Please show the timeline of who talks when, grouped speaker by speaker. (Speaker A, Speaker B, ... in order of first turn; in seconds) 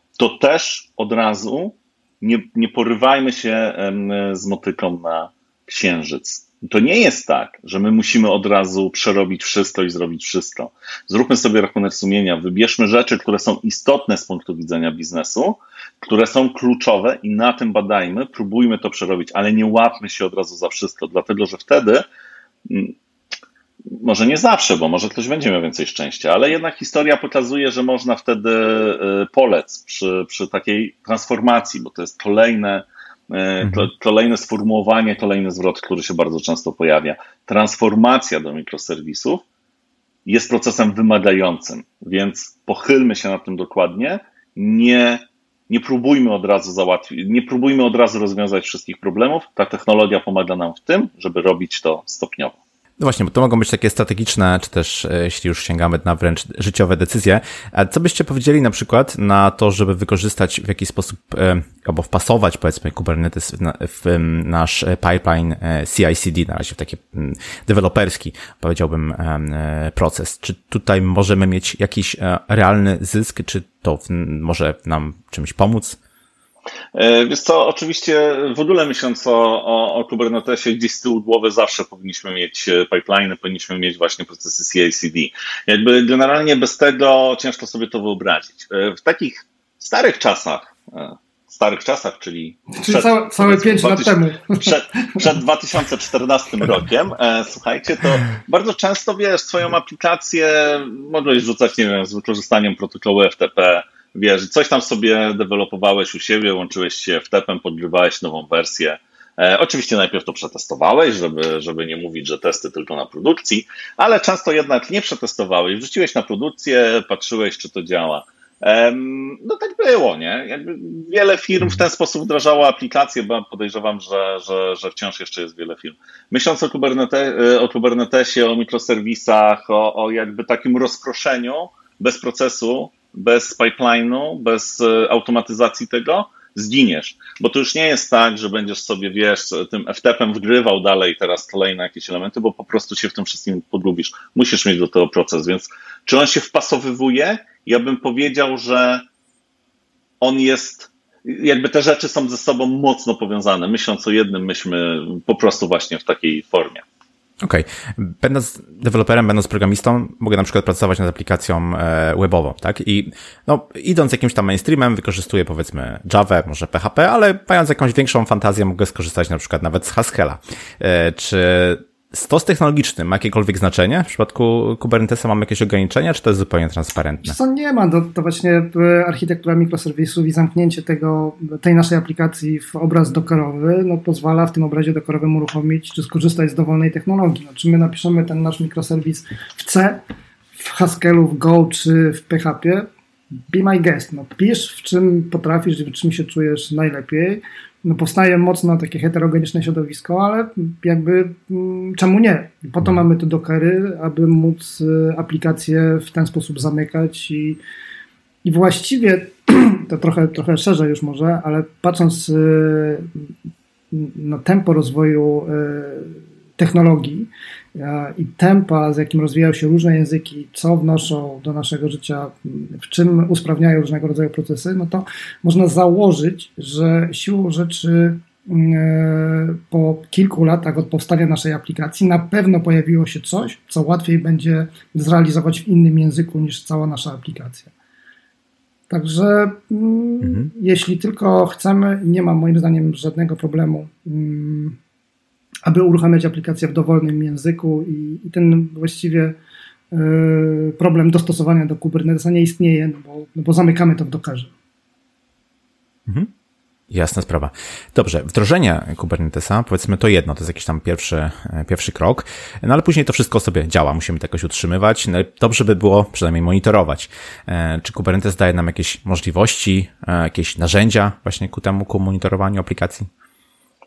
Speaker A: 0.2-22.0, 22.6-23.0, 23.9-39.4, 40.2-52.5, 76.9-149.0, 150.2-156.8
Speaker B: 33.6-33.9, 53.0-76.0, 157.4-177.3, 240.2-240.5, 256.9-273.1
Speaker C: 92.8-95.2, 177.2-190.0, 190.6-192.8, 193.5-207.6, 208.4-213.1, 213.9-237.7, 238.9-244.8, 245.6-249.3, 249.9-254.5